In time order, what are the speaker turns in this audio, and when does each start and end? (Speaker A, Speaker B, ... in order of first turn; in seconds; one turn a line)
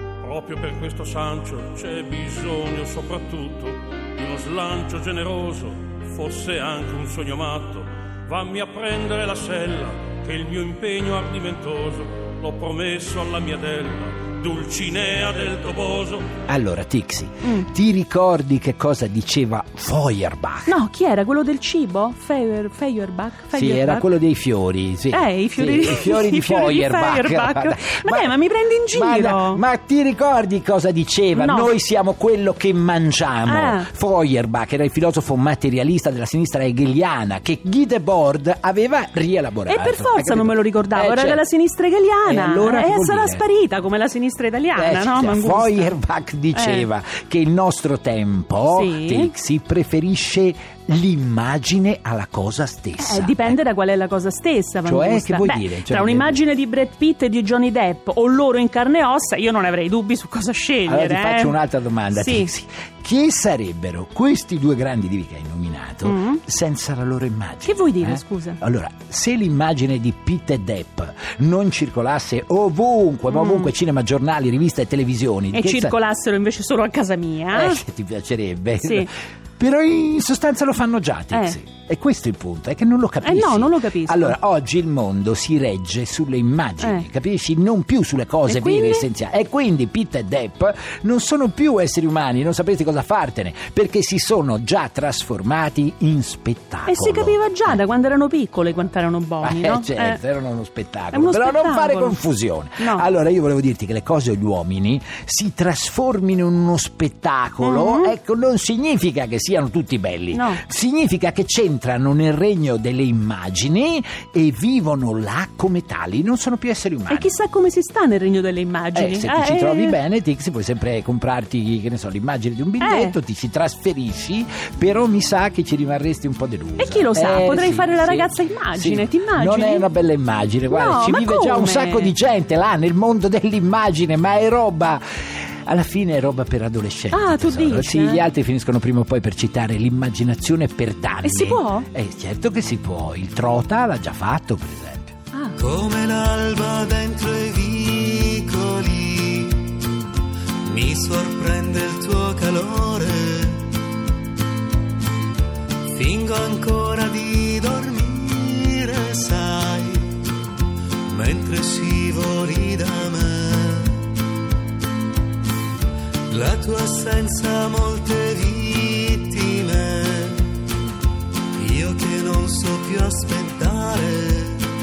Speaker A: 0.2-16.3
Speaker B: 16.5-20.8
Speaker C: 20.7-24.1
Speaker B: 23.5-41.4
Speaker C: 25.1-29.6
Speaker C: 31.3-31.7
Speaker C: 33.5-33.9
Speaker C: 39.7-46.0
Speaker B: 42.2-43.4
Speaker B: 44.8-53.6
Speaker C: 46.5-46.9
Speaker C: 48.7-49.3
Speaker C: 53.0-61.6
Speaker B: 54.8-56.4
Speaker B: 60.9-75.9
Speaker C: 62.1-62.5
Speaker C: 66.0-66.4
Speaker C: 67.7-68.6
Speaker C: 73.3-73.7
Speaker C: 75.5-77.8
Speaker B: 77.5-97.8
Speaker C: 78.8-79.1
Speaker C: 81.3-81.6
Speaker C: 83.2-84.4
Speaker C: 88.5-89.1
Speaker C: 96.9-100.2
Speaker B: 99.4-117.3
Speaker C: 101.1-102.2
Speaker C: 102.8-103.1
Speaker C: 107.6-108.1
Speaker C: 110.3-110.6
Speaker C: 117.1-120.0
Speaker B: 118.9-145.2
Speaker C: 122.8-123.2
Speaker C: 126.8-129.9
Speaker C: 130.7-132.1
Speaker C: 137.1-138.2
Speaker C: 141.2-141.9
Speaker C: 145.3-145.6
Speaker D: 145.6-149.8
Speaker D: 150.8-153.6
Speaker D: 155.9-160.2
Speaker D: 161.1-164.0
Speaker D: 166.3-170.4
Speaker D: 171.6-174.6